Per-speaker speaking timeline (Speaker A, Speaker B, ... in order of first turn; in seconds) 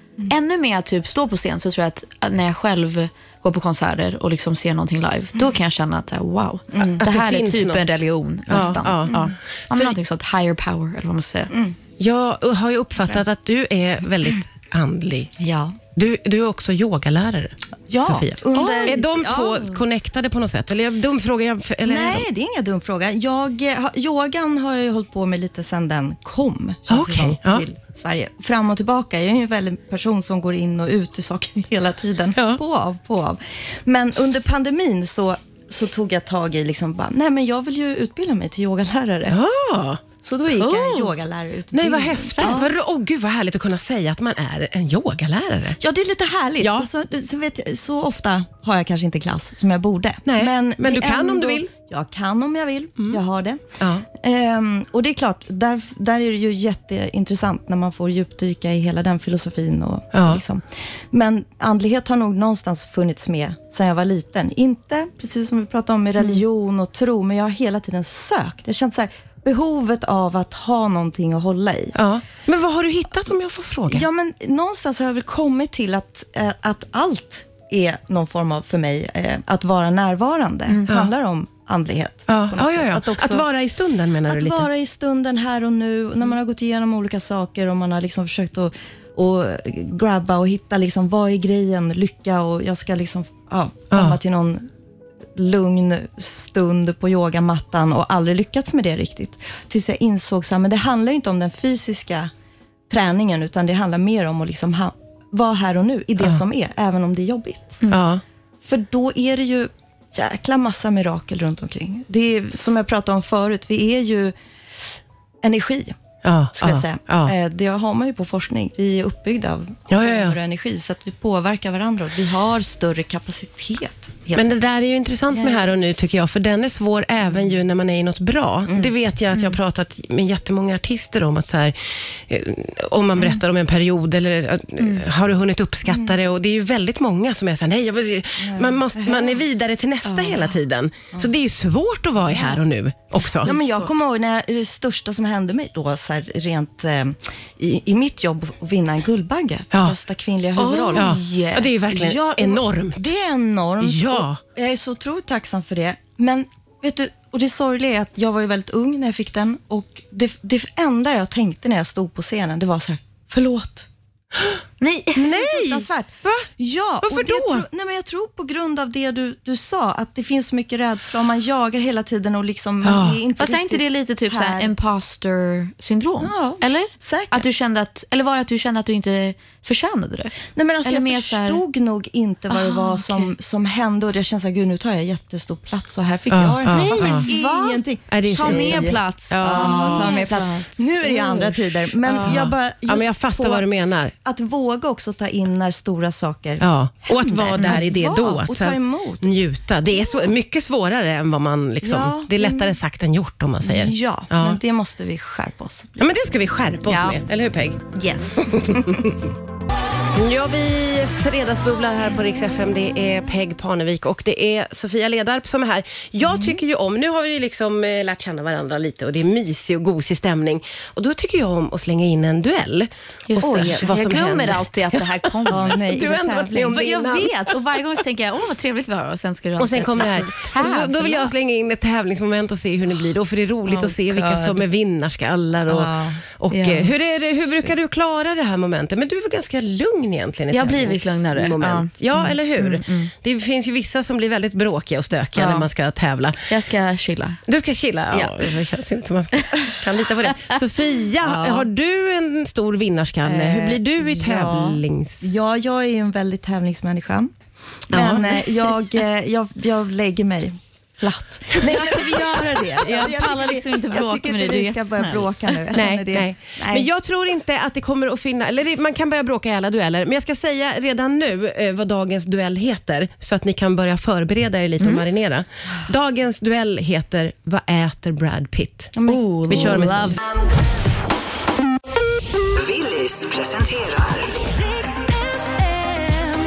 Speaker A: 0.3-11.5, 18.6-19.6, 40.6-41.1, 134.8-135.0, 140.1-140.5, 143.5-143.9, 150.6-151.7, 164.8-165.3, 173.4-181.6, 182.5-183.3, 186.7-192.4, 197.6-197.8, 223.3-225.8, 226.7-231.3, 233.7-234.6, 236.5-236.9, 240.5-243.1, 245.4-245.7, 246.5-247.4, 248.1-248.5, 249.4-249.7, 261.6-265.6, 279.1-280.2
Speaker B: 6.7-7.0, 8.6-9.3, 11.5-11.8, 15.4-15.8, 17.9-19.7, 21.8-39.4, 40.2-42.7, 45.8-72.0, 73.9-83.5, 84.3-94.7, 95.3-102.3, 102.9-107.8, 108.6-114.3, 115.4-116.0, 116.5-124.5, 125.3-125.7, 128.7-128.9, 135.9-136.1, 138.4-139.5, 143.4-151.2, 151.9-163.9, 165.2-174.7, 176.2-177.5, 180.5-193.7, 194.2-199.3, 201.8-202.8, 203.6-206.1, 206.9-207.2, 207.9-209.1, 216.2-216.6, 223.4-223.9, 225.5-226.9, 230.6-231.2, 235.7-236.2, 251.2-251.7, 253.2-257.3, 257.9-262.2, 262.8-266.9, 278.9-280.1
Speaker C: 6.8-10.0, 12.0-15.3, 16.0-22.3, 26.9-27.6, 32.4-32.6, 39.3-40.0, 41.7-45.8, 46.6-46.9, 50.3-51.7, 53.8-54.1, 60.1-60.4, 72.0-74.1, 82.3-84.7, 93.9-94.2, 107.9-108.2, 116.2-117.3, 119.9-120.4, 124.3-131.8, 132.3-143.5, 150.9-153.1, 153.8-154.4, 165.3-166.5, 167.0-167.7, 172.8-173.2, 186.3-187.3, 188.1-190.2, 192.2-194.1, 196.6-204.6, 206.0-207.8, 208.4-209.2, 210.1-227.3, 229.6-246.4, 247.5-255.3, 257.9-258.8, 261.6-261.8, 265.7-278.9, 279.5-280.2
Speaker D: 282.5-284.6